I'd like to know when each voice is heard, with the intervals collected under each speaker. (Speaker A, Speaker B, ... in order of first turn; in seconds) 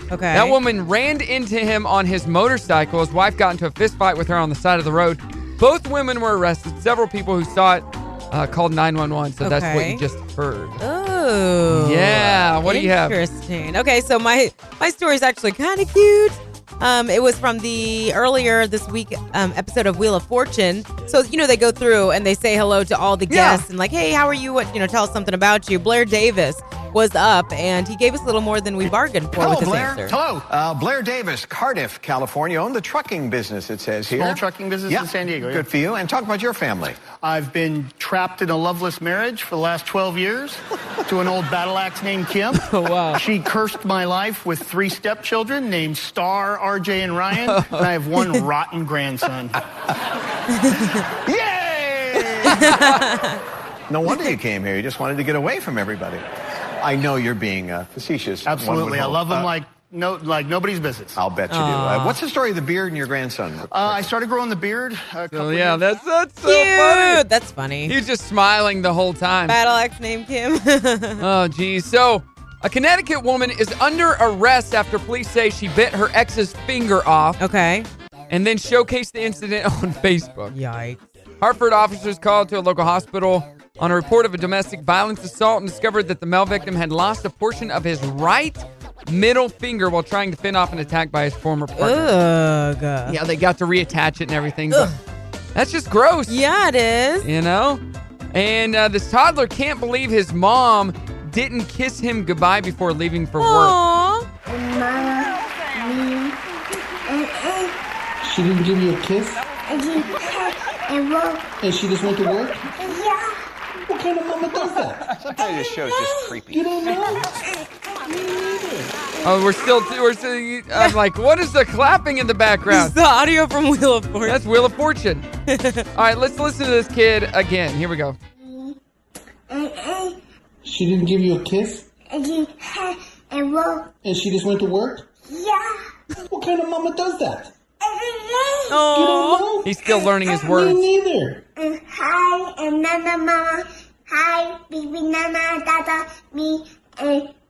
Speaker A: 0.1-0.6, 9.4-10.0, 10.8-30.1, 50.5-51.0, 52.4-53.4, 61.5-62.2, 66.4-67.9, 69.5-71.2, 77.4-77.9, 80.5-81.0, 91.8-93.2, 96.3-97.3, 103.4-104.3, 120.7-121.0, 122.7-124.4, 125.5-125.9, 138.7-139.5
Speaker B: 0.3-10.8, 11.7-13.2, 23.3-23.6, 42.5-43.2, 47.4-47.9, 52.5-53.1, 65.3-67.2, 67.9-69.6, 71.2-77.4, 78.3-80.5, 81.4-92.1, 93.1-94.9, 95.5-96.4, 97.2-97.8, 98.3-103.8, 119.2-122.9, 124.2-125.2, 125.9-128.2, 139.6-140.8
Speaker C: 29.4-37.0, 51.2-52.6, 53.9-56.2, 56.8-59.5, 61.1-64.1, 115.2-116.7
Speaker D: 30.1-30.5, 34.1-35.7, 37.1-49.6, 58.5-61.2, 63.7-65.8
Speaker E: 104.5-107.8, 109.7-111.5, 112.8-113.4, 115.4-116.4, 117.6-118.6, 128.4-128.8, 129.5-130.2, 132.1-133.9, 135.3-135.8, 137.8-138.8, 141.6-147.3
Speaker F: 108.2-109.4, 111.6-112.7, 113.8-115.1, 116.5-117.3, 118.2-118.9, 130.6-131.8, 134.0-135.1, 136.3-137.5, 138.9-139.8, 140.4-141.4